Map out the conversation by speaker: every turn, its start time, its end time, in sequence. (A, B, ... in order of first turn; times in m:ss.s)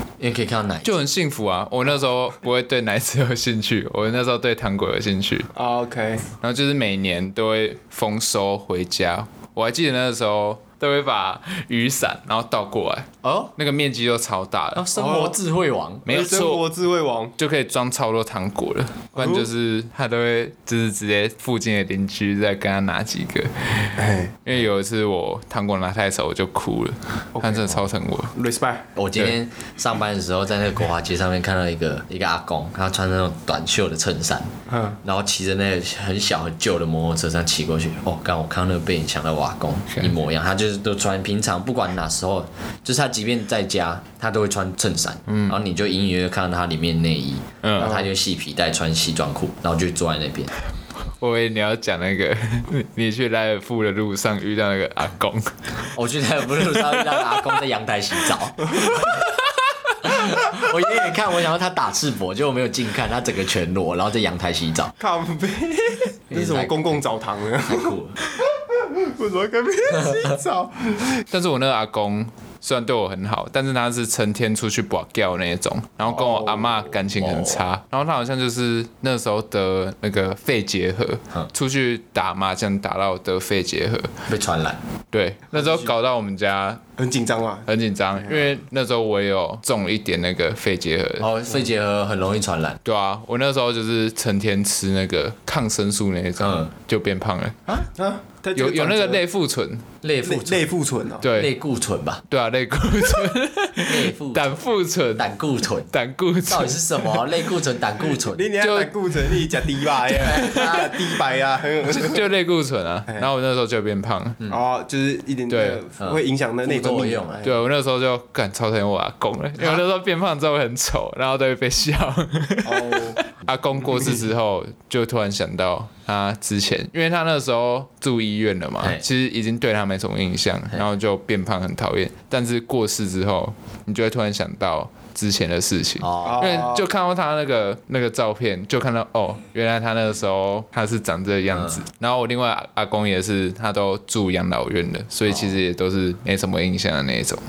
0:00.2-0:01.0 A
0:00.8-0:05.5 B
0:05.5-0:06.2 C
0:06.4-0:14.9 B
0:13.2-0:13.5 A
0:14.7-0:16.1 A
0:14.9-0:15.4 C
0:16.0-0:16.6 B
0:16.1-0:17.3 C
0:17.4-0:28.3 B
0:19.2-0:19.4 C
0:24.0-0:24.3 C
0:27.3-0:27.8 C
0:28.3-0:28.8 C
0:28.9-0:34.5 A
0:34.7-0:35.0 C
0:35.0-0:50.5 A
0:45.3-0:45.6 B
0:47.6-0:48.1 B
0:51.2-0:55.5 B
0:55.9-0:59.2 A
0:56.8-0:57.4 B
0:58.9-0:59.3 B
1:00.0-1:04.9 A
1:05.0-1:11.2 C
1:06.3-1:07.0 A
1:07.6-1:08.2 A
1:11.3-1:24.1 B
1:17.1-1:17.6 A
1:24.3-1:24.8 A
1:25.1-1:26.8 B
1:25.5-1:25.9 C
1:27.0-1:27.7 C
1:27.7-1:31.3 B
1:28.2-1:28.5 C
1:31.2-1:32.8 A
1:32.8-1:37.7 B
1:36.4-1:36.7 A
1:37.9-1:39.2 C
1:38.6-1:39.8 B
1:40.0-1:40.6 A
1:40.2-1:41.2 C
1:41.2-1:41.5 B
1:41.3-1:42.2 A
1:42.3-1:45.3 B
1:43.8-1:44.6 A
1:45.2-1:45.9 A
1:45.9-1:47.4 B
1:46.5-1:48.5 A
1:48.2-1:52.2 C
1:48.6-1:49.6 B
1:50.2-1:50.9 A
1:50.2-1:50.9 B
1:51.9-1:54.4 B
1:54.5-1:57.5 C
1:55.5-1:55.8 B
1:56.0-1:57.5 A
1:57.4-2:27.4 B
2:02.6-2:03.2 C
2:16.0-2:16.7 A
2:16.2-2:16.8 C
2:21.5-2:21.8 A
2:25.2-2:25.6 A